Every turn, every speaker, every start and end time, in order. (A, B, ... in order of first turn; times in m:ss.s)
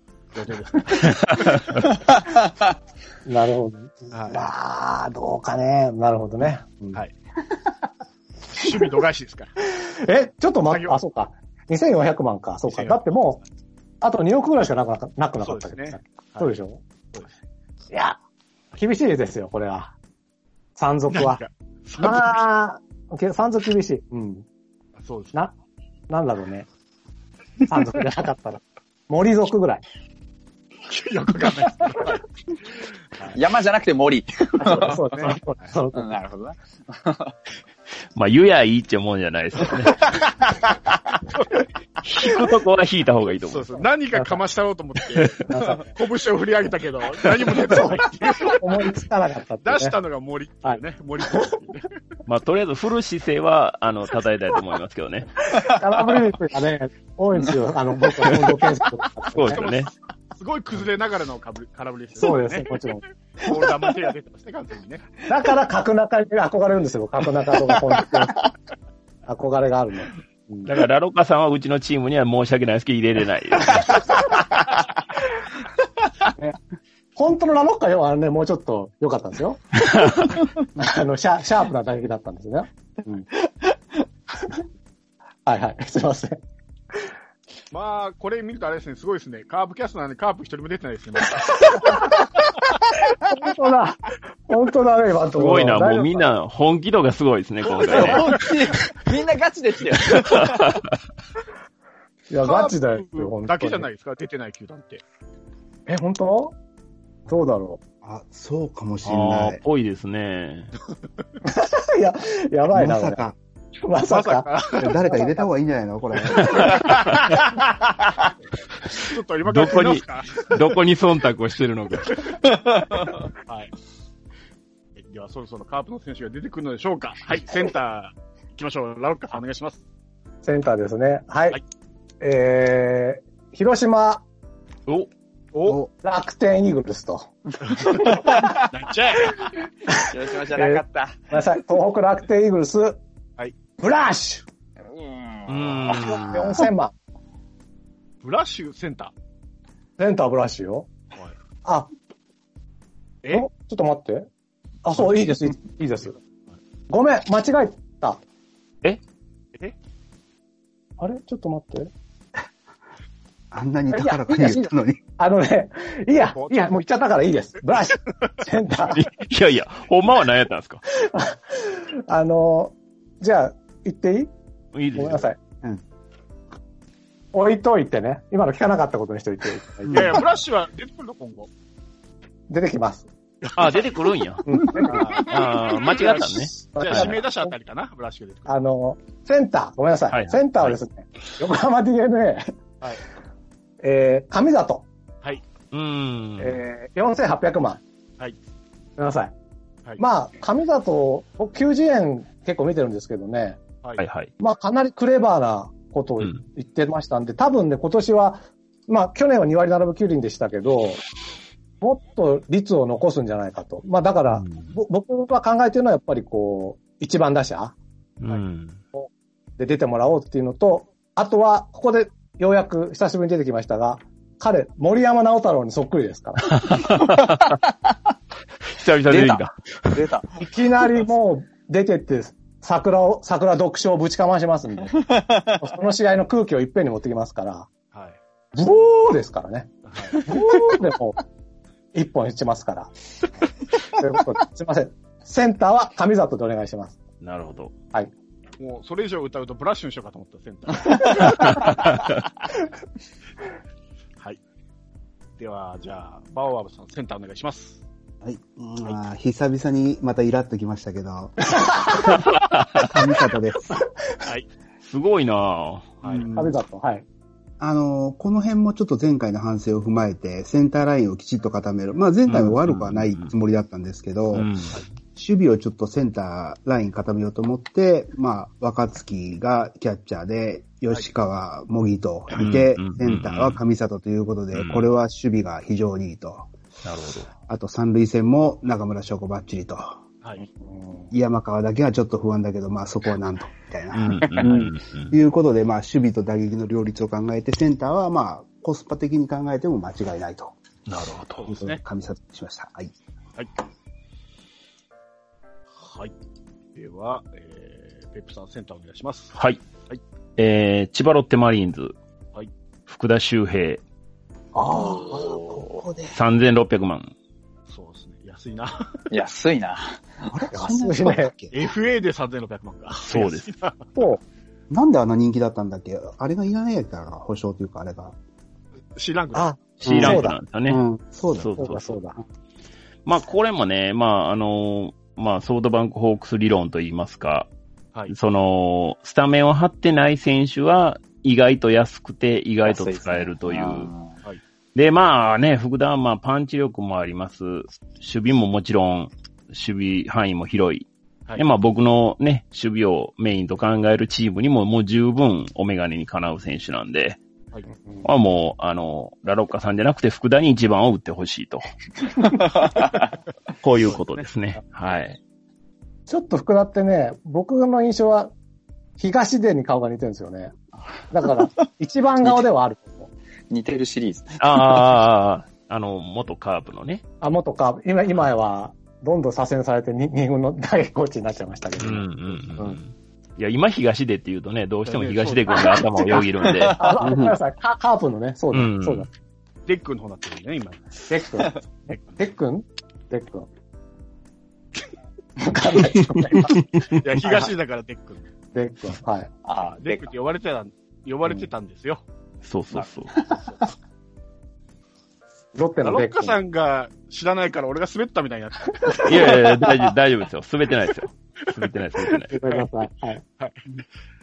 0:00.3-0:01.9 A
0:01.1-0:01.8 B
0:03.2-0:06.9 C
0:04.1-0:04.5 A
0:08.5-0:09.5 A
0:09.7-0:13.4 C
0:10.6-0:11.0 A
0:12.7-0:13.0 A
0:14.0-0:16.8 C
0:15.4-0:16.5 A
0:17.9-0:18.2 C
0:18.7-0:19.9 C
0:20.8-0:21.4 C
0:21.1-0:22.4 A
0:22.0-0:24.4 C
0:25.0-0:25.3 A
0:26.1-0:26.7 C
0:27.7-0:29.8 C
0:30.9-0:32.2 A
0:33.3-0:35.0 D
0:34.6-0:36.2 C
0:35.9-0:37.3 D
0:38.1-0:40.1 B
0:40.2-0:40.6 D
0:42.0-0:43.8 B
0:43.4-0:48.6 A
0:45.5-0:45.9 C
0:47.7-0:50.0 C
0:49.6-0:51.9 A
0:52.2-0:55.3 B
0:55.6-0:59.6 C
0:59.3-0:59.9 B
0:59.4-1:02.8 A
1:02.2-1:03.0 C
1:03.4-1:05.0 A
1:05.3-1:08.5 C
1:09.3-1:10.7 C
1:10.6-1:14.0 B
1:17.2-1:23.3 C
1:19.9-1:20.2 B
1:25.4-1:26.4 C
1:27.7-1:32.1 A
1:31.7-1:32.2 C
1:33.1-1:36.3 C
1:35.4-1:38.3 B
1:37.9-1:40.8 D
1:40.2-1:40.9 B
1:42.3-1:43.9 C
1:42.4-1:45.0 A
1:45.9-1:46.5 C
1:47.3-1:47.8 C
1:48.0-1:49.6 E
1:49.0-1:50.7 B
1:51.4-1:53.2 C
1:52.7-1:53.4 E
1:53.8-1:54.5 C
1:54.0-1:55.0 A
1:54.8-1:56.8 E
1:55.0-1:55.4 C
1:56.3-1:57.3 A
1:56.6-1:57.2 B
1:58.9-2:00.7 A
1:59.4-2:02.2 B
2:02.5-2:03.1 D
2:03.4-2:03.7 A
2:05.0-2:09.8 A
2:10.4-2:11.6 C
2:12.2-2:14.2 C
2:15.5-2:15.8 A
2:16.0-2:17.3 C
2:17.6-2:18.2 A
2:18.1-2:18.6 D
2:18.7-2:19.5 A
2:19.9-2:23.0 C
2:20.0-2:21.3 D
2:23.8-2:24.4 C
2:24.8-2:26.0 D
2:25.5-2:26.7 B
2:25.8-2:26.9 C
2:28.2-2:29.1 A
2:30.0-2:30.9 C
2:33.2-2:33.5 A
2:33.3-2:34.3 C
2:34.8-2:36.2 C
2:36.9-2:38.2 C
2:41.0-2:41.9 C
2:43.5-2:45.0 E
2:43.9-2:49.1 C
2:46.2-2:46.8 A
2:48.9-2:50.8 B
2:51.0-2:54.3 C
2:54.7-2:55.3 B
2:54.9-2:55.4 C
2:57.3-3:00.2 C
2:59.9-3:01.5 A
3:02.5-3:03.1 C
3:03.4-3:03.8 A
3:03.5-3:07.2 B
3:04.5-3:05.1 C
3:04.8-3:08.5 A
3:06.7-3:07.5 C
3:08.5-3:12.5 C
3:10.1-3:10.8 B
3:13.8-3:14.8 C
3:15.7-3:16.6 B
3:16.4-3:17.8 C
3:19.0-3:19.3 C
3:20.0-3:23.6 C
3:24.0-3:24.3 B
3:24.4-3:31.0 C
3:31.8-3:37.7 C
3:34.3-3:34.8 B
3:38.2-3:38.8 B
3:38.9-3:46.8 C
3:46.5-3:47.6 B
3:48.7-3:50.0 B
3:49.1-3:50.4 D
3:50.4-3:57.7 C
3:54.9-3:55.6 D
3:57.9-3:58.2 A
3:58.5-4:01.2 C
3:59.8-4:00.3 A
4:01.9-4:02.9 C
4:03.9-4:07.0 C
4:07.2-4:07.7 B
4:08.6-4:12.0 A
4:11.4-4:12.0 B
4:15.4-4:17.8 A
4:18.2-4:21.5 E
4:21.6-4:22.2 C
4:22.1-4:22.9 B
4:22.7-4:23.7 E
4:24.8-4:26.0 B
4:26.0-4:26.3 A
4:26.1-4:26.5 E
4:26.3-4:27.0 C
4:27.6-4:34.5 E
4:32.3-4:33.3 B
4:34.3-4:34.8 B
4:35.1-4:46.5 E
4:42.3-4:43.6 B
4:44.5-4:44.9 B
4:46.8-4:47.3 B
4:47.5-4:50.0 E
4:50.6-4:51.1 C
4:51.1-5:00.6 E
4:53.9-4:55.1 B
5:00.9-5:01.5 B
5:01.4-5:01.8 A
5:01.4-5:02.9 E
5:05.7-5:06.1 A
5:06.7-5:09.4 A
5:09.3-5:09.6 B
5:10.4-5:11.9 B
5:12.9-5:13.8 B
5:14.5-5:15.4 C
5:14.7-5:15.8 D
5:15.0-5:16.2 E
5:16.1-5:17.1 B
5:17.7-5:19.1 A
5:19.1-5:20.0 D
5:20.3-5:21.5 E
5:20.5-5:21.3 C
5:21.5-5:23.9 A
5:23.0-5:23.5 B
5:24.7-5:28.1 E
5:28.9-5:29.5 A
5:29.3-5:30.4 C
5:29.8-5:30.8 B
5:29.8-5:31.8 E
5:31.3-5:31.9 B
5:31.6-5:32.2 C
5:33.0-5:37.5 B
5:38.1-5:43.9 B
5:42.6-5:44.1 D
5:44.7-5:57.2 B
5:58.0-6:01.6 B
6:02.6-6:02.9 D
6:03.6-6:05.2 B
6:03.9-6:04.2 A
6:06.1-6:08.3 C
6:09.0-6:10.5 C
6:11.1-6:13.1 C
6:13.5-6:14.8 D
6:14.4-6:17.0 B
6:17.2-6:22.8 C
6:21.8-6:26.8 B
6:24.8-6:26.2 A
6:26.4-6:27.0 D
6:26.7-6:29.1 C
6:27.0-6:27.4 E
6:28.5-6:29.1 B
6:29.6-6:31.0 A
6:31.1-6:33.5 C
6:35.4-6:36.7 C
6:36.4-6:36.9 B
6:36.9-6:38.3 A
6:38.5-6:39.3 C
6:39.4-6:40.1 D
6:39.8-6:42.0 A
6:42.4-6:43.2 B
6:43.3-6:43.6 A
6:45.5-6:46.4 C
6:45.8-6:49.6 A
6:49.0-6:52.3 B
6:52.3-6:53.2 C
6:53.4-6:53.8 A